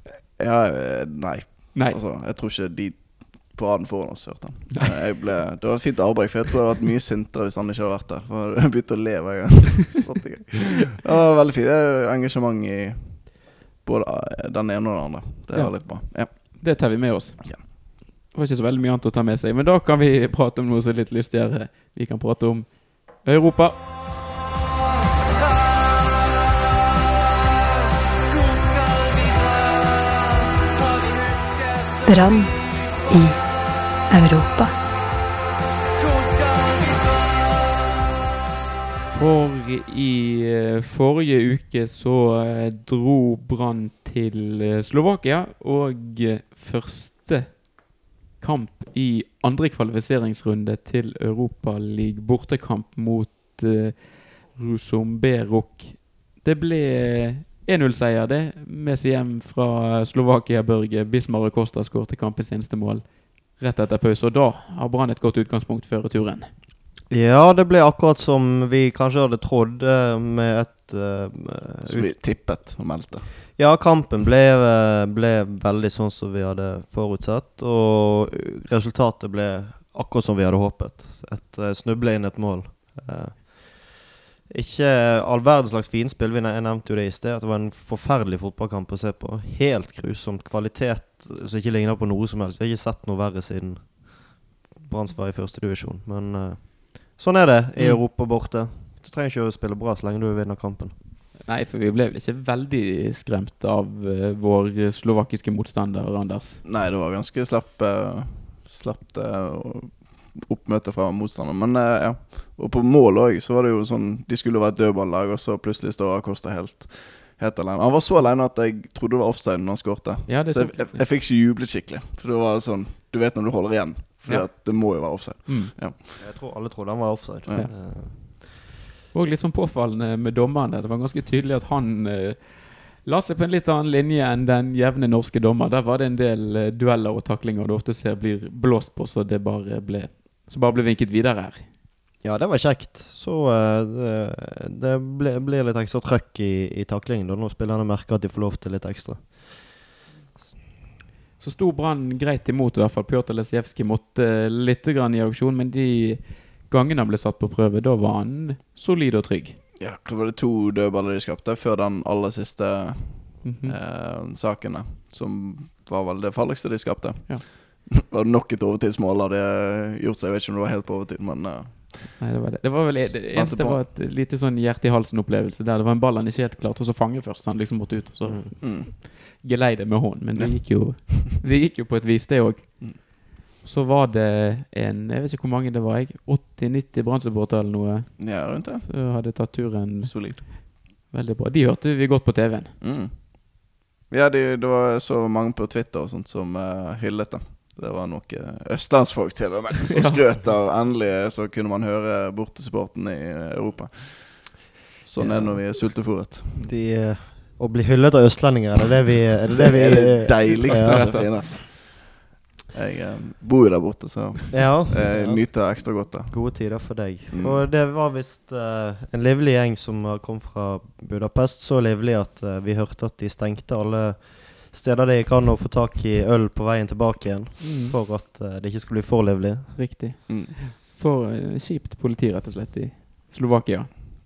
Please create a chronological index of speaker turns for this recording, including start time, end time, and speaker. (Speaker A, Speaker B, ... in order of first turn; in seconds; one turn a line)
Speaker A: 0.4-16.8
Speaker B: 1.7-2.0
Speaker B: 15.5-23.9
Speaker C: 32.1-34.8
Speaker B: 39.1-66.5
Speaker D: 67.1-72.1
Speaker A: 71.8-73.6
Speaker D: 73.6-101.0
Speaker B: 97.8-98.0
Speaker B: 101.4-106.6
Speaker A: 106.6-126.2
Speaker B: 120.3-121.1
Speaker B: 124.3-125.8
Speaker D: 126.2-128.3
Speaker B: 127.5-128.5
Speaker B: 129.1-141.7
Speaker D: 142.2-149.6
Speaker B: 151.4-159.6
Speaker A: 159.8-172.2
Speaker B: 163.4-163.8
Speaker B: 172.2-192.8
Speaker A: 173.0-173.8
Speaker D: 178.2-178.5
Speaker A: 178.6-178.9
Speaker A: 180.4-181.2
Speaker A: 188.2-189.5
Speaker A: 190.0-190.4
Speaker A: 192.8-206.7
Speaker B: 199.9-200.2
Speaker D: 205.2-205.7
Speaker D: 206.6-211.4
Speaker A: 209.7-212.1
Speaker B: 210.8-211.5
Speaker A: 212.7-217.6
Speaker D: 214.5-229.9
Speaker B: 227.6-228.0
Speaker B: 229.8-234.0
Speaker A: 230.3-230.6